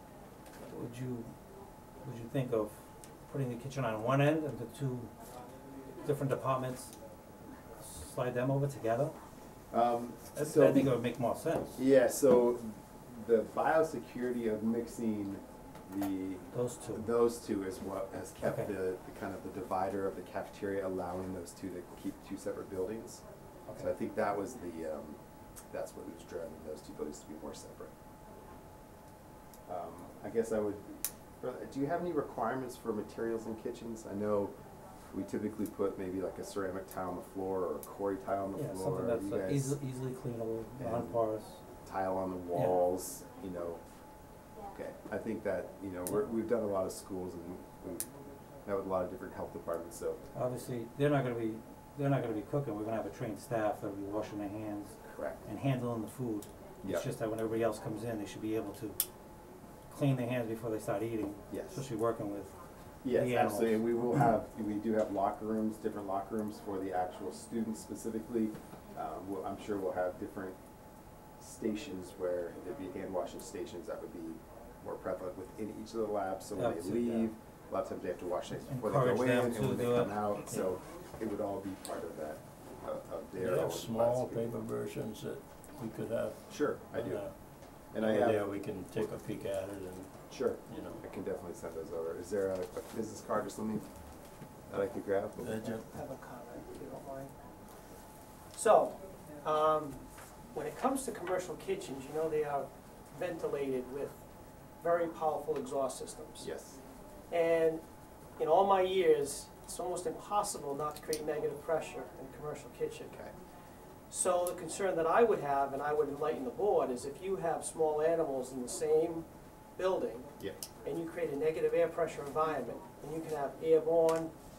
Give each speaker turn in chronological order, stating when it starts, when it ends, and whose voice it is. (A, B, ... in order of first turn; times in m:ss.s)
0:00.7-0:01.3 A
0:02.0-0:05.1 A
0:06.0-0:07.0 A
0:07.8-0:09.2 A
0:09.7-0:10.9 B
0:10.4-0:11.8 A
0:11.8-0:23.2 B
0:16.5-0:17.1 A
0:18.4-0:18.7 A
0:23.8-0:25.2 B
0:25.7-0:27.9 B
0:29.7-0:34.5 B
0:35.1-0:39.8 B
0:38.6-0:41.6 A
0:40.8-0:41.2 B
0:41.8-0:43.8 B
0:44.7-0:48.1 B
0:48.7-0:50.2 B
0:50.3-0:59.0 A
0:55.1-0:55.4 B
0:56.8-0:57.1 B
0:59.9-1:02.5 A
1:01.5-1:01.8 B
1:03.0-1:10.6 B
1:03.1-1:03.8 A
1:11.4-1:24.5 B
1:16.6-1:17.3 A
1:18.7-1:20.1 A
1:23.4-1:27.3 C
1:26.5-1:27.3 B
1:27.9-1:28.5 B
1:28.0-1:31.0 C
1:30.3-1:33.9 B
1:34.7-1:35.7 B
1:35.4-1:35.9 C
1:35.7-1:37.3 D
1:38.5-1:44.2 D
1:44.8-1:46.5 D
1:46.4-1:46.8 B
1:47.3-1:47.8 D
1:48.4-1:53.2 D
1:54.1-1:59.3 D
1:59.8-2:00.3 D
2:00.8-2:04.3 D